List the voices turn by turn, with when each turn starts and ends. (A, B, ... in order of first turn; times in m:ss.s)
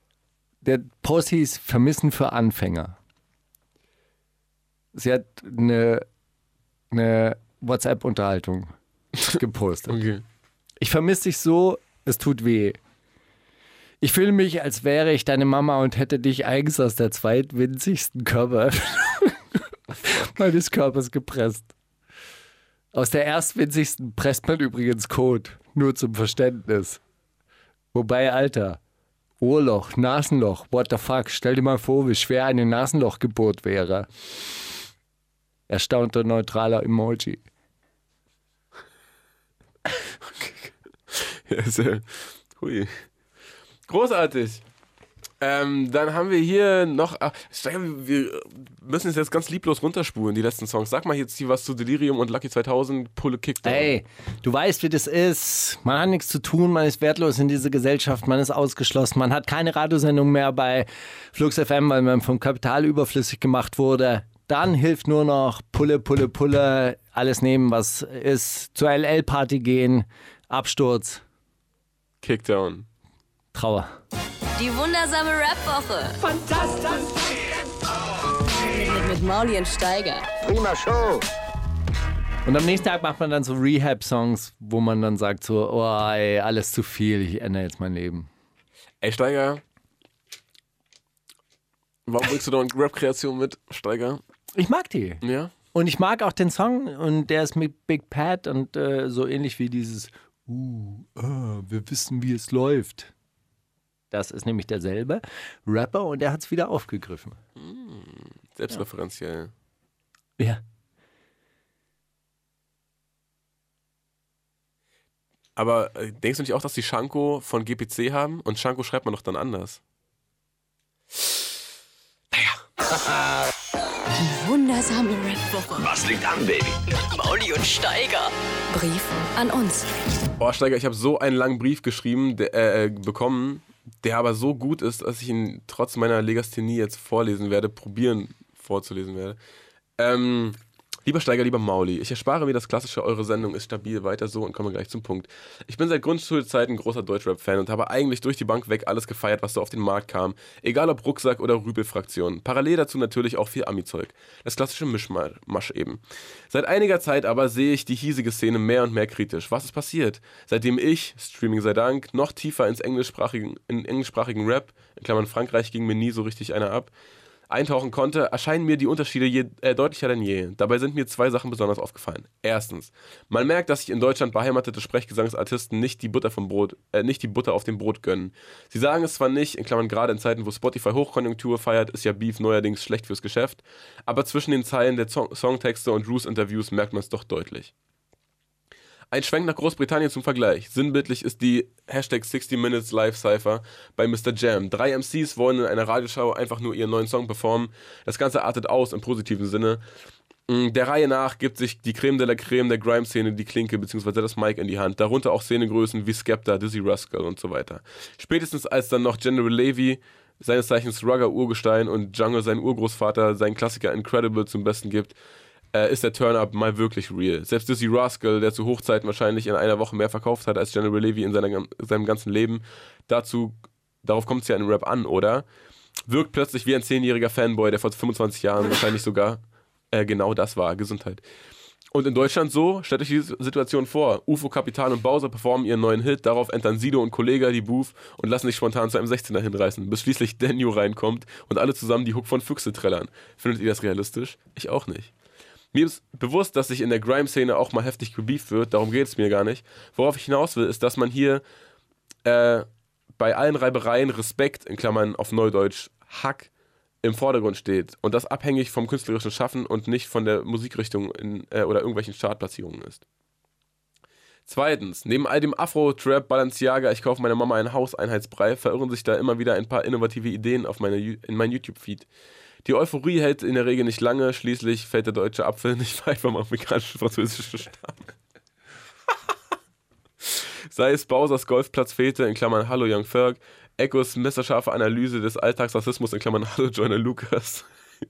0:00.6-0:03.0 A
0:04.9-0:06.1 A
0:06.9-0:10.0 A
0:09.9-0:10.2 B
0:10.8-0:12.8 A
0:14.0-0:21.7 A
0:20.0-0:20.3 B
0:22.9-0:27.0 A
0:27.9-0:28.8 A
0:29.4-0:34.1 A
0:35.7-0:37.4 A
0:40.0-0:43.0 B
0:43.9-0:44.6 B
0:45.4-0:54.0 B
0:53.6-1:11.2 A
1:12.2-1:12.9 B
1:13.5-1:14.0 A
1:14.6-1:17.0 C
1:18.4-1:20.7 C
1:22.4-1:28.3 A
1:29.0-1:29.6 B
1:32.1-1:34.2 B
1:34.6-1:43.1 A
1:35.2-1:35.5 B
1:44.1-1:47.4 A
1:47.6-1:49.5 B
1:55.6-1:59.8 B
2:02.3-2:02.6 B
2:04.2-2:06.2 C
2:06.9-2:09.9 C
2:10.4-2:19.4 B
2:20.0-2:46.9 B
2:47.5-3:07.7 B
3:09.1-3:19.8 B
3:20.5-3:35.2 B
3:35.7-3:45.5 B
3:46.1-3:51.2 B
3:51.9-4:05.1 B
4:05.7-4:11.4 B
4:12.2-4:16.5 B
4:17.0-4:23.0 B
4:24.5-4:32.1 B
4:32.6-4:38.1 B
4:40.2-4:47.7 B